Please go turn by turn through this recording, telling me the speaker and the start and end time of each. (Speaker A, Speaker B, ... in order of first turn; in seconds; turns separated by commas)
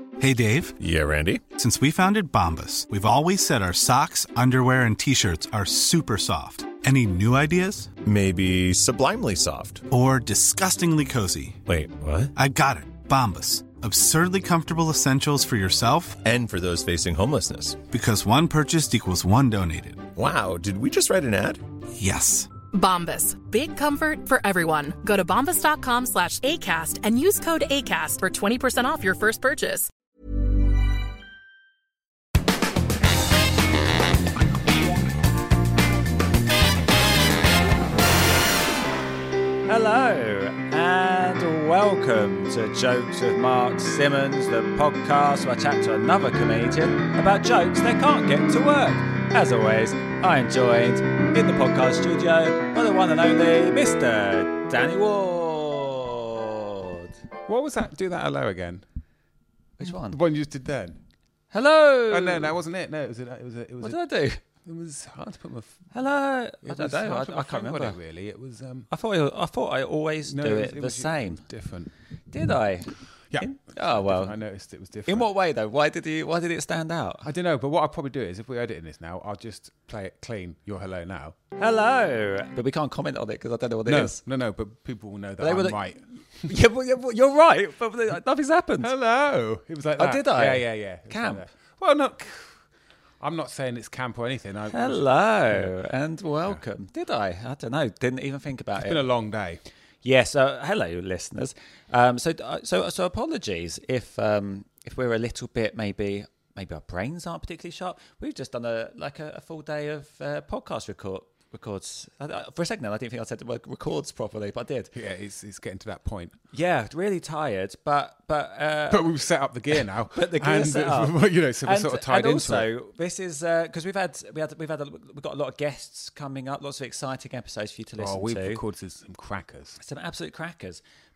Speaker A: 0.2-0.8, Speaker B: 0.8-1.4, Speaker A: 1.5-7.9, Speaker B: 8.0-9.8, Speaker A: 9.9-11.6, Speaker B: 11.6-12.3, Speaker A: 12.3-16.2, Speaker B: 16.2-17.8, Speaker A: 17.9-20.1, Speaker B: 20.1-21.6, Speaker A: 21.9-22.5, Speaker C: 22.7-29.9, Speaker D: 39.7-57.1, Speaker E: 57.5-58.8, Speaker D: 59.8-60.2, Speaker E: 60.0-61.0, Speaker D: 61.5-62.5, Speaker E: 62.1-64.0, Speaker D: 63.8-64.4, Speaker E: 64.5-65.8, Speaker D: 65.9-68.0, Speaker E: 66.6-68.9, Speaker D: 68.9-71.4, Speaker E: 70.2-71.9, Speaker D: 72.3-74.3, Speaker E: 73.3-75.3, Speaker D: 75.1-77.3, Speaker E: 77.2-81.4, Speaker D: 81.6-84.2, Speaker E: 83.9-86.0, Speaker D: 85.4-85.8, Speaker D: 86.4-88.9, Speaker E: 88.8-92.6, Speaker D: 90.0-91.4, Speaker E: 93.2-95.7, Speaker D: 94.7-99.0, Speaker E: 98.8-99.6, Speaker D: 100.0-114.9, Speaker E: 114.9-116.3, Speaker D: 116.5-119.1, Speaker E: 118.9-122.7, Speaker D: 119.8-128.6, Speaker E: 128.0-129.8, Speaker D: 129.8-130.8